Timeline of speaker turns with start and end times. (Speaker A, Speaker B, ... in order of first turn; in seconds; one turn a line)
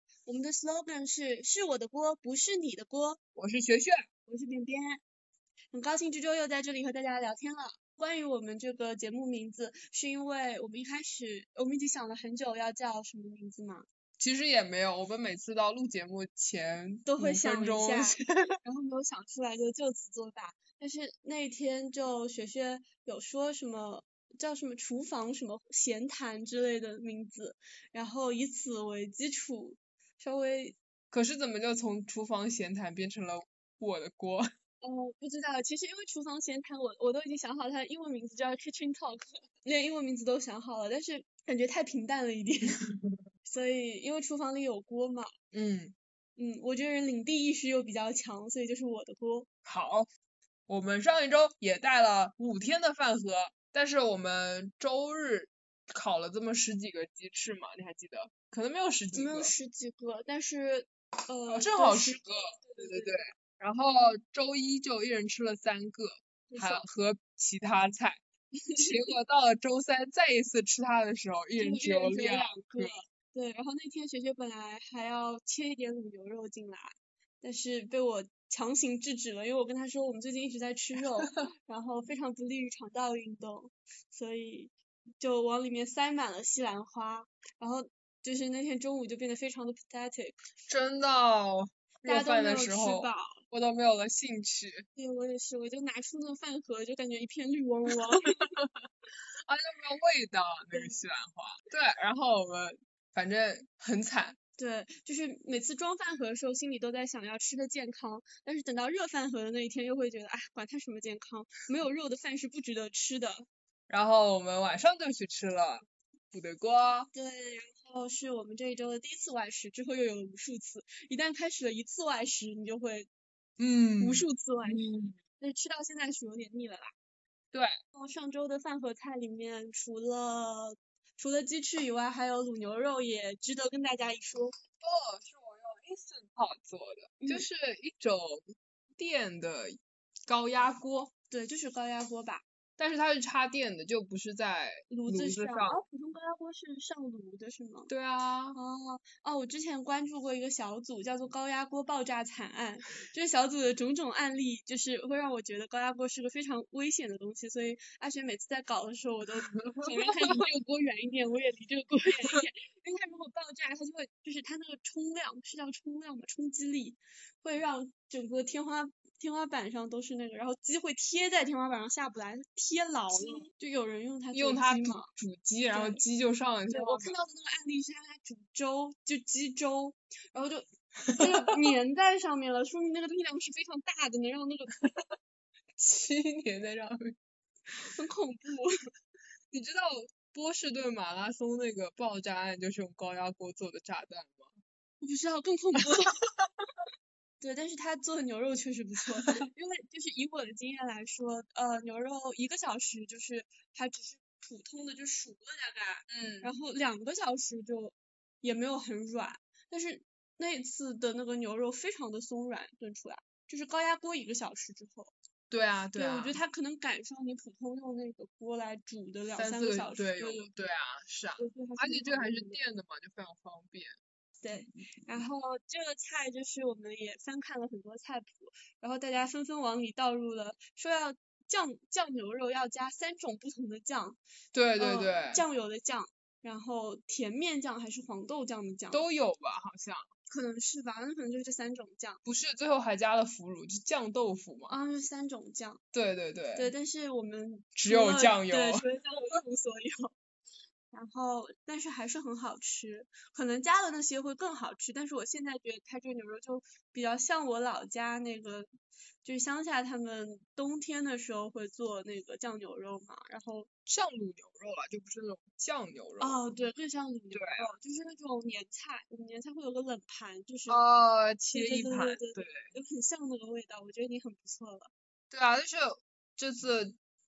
Speaker A: 0.3-3.2
Speaker B: 3.4-4.0
Speaker A: 4.3-5.0
Speaker A: 5.7-13.9
Speaker B: 14.2-18.5
Speaker A: 17.1-30.8
Speaker B: 31.1-34.5
Speaker A: 34.8-42.8
Speaker A: 43.5-45.3
Speaker B: 45.5-46.0
Speaker A: 46.4-49.5
Speaker B: 49.7-50.1
Speaker B: 50.7-59.5
Speaker A: 59.1-63.3
Speaker B: 61.5-68.2
Speaker A: 66.5-66.8
Speaker A: 68.6-69.1
Speaker B: 68.8-72.9
Speaker A: 71.6-90.4
Speaker B: 90.7-94.9
Speaker A: 92.0-93.4
Speaker A: 95.0-98.5
Speaker B: 99.5-104.4
Speaker A: 100.7-101.0
Speaker A: 104.6-113.5
Speaker B: 113.9-117.1
Speaker A: 117.1-123.1
Speaker B: 123.6-125.2
Speaker A: 124.0-126.9
Speaker A: 127.9-134.5
Speaker B: 134.8-141.1
Speaker A: 137.2-137.5
Speaker A: 141.3-142.4
Speaker B: 142.8-145.8
Speaker A: 144.9-147.9
Speaker B: 147.9-148.6
Speaker A: 148.5-175.1
Speaker B: 173.1-173.5
Speaker B: 174.3-177.2
Speaker A: 175.7-176.0
Speaker A: 176.7-184.8
Speaker B: 181.1-181.7
Speaker B: 185.8-187.2
Speaker A: 187.9-188.7
Speaker B: 189.5-194.5
Speaker A: 195.0-196.3
Speaker A: 197.4-215.1
Speaker B: 206.1-206.5
Speaker B: 215.5-216.4
Speaker A: 215.9-220.5
Speaker B: 219.3-223.9
Speaker A: 221.4-222.6
Speaker A: 224.4-234.2
Speaker B: 234.5-235.4
Speaker A: 234.8-239.1
Speaker B: 238.9-240.1
Speaker A: 240.3-242.2
Speaker B: 242.2-244.8
Speaker A: 244.7-245.8
Speaker B: 245.9-246.7
Speaker A: 246.6-250.1
Speaker B: 247.8-248.8
Speaker A: 250.9-258.7
Speaker A: 259.2-263.7
Speaker B: 263.9-266.4
Speaker A: 266.2-270.8
Speaker B: 267.3-267.7
Speaker B: 270.7-272.7
Speaker A: 271.5-274.9
Speaker B: 275.3-277.0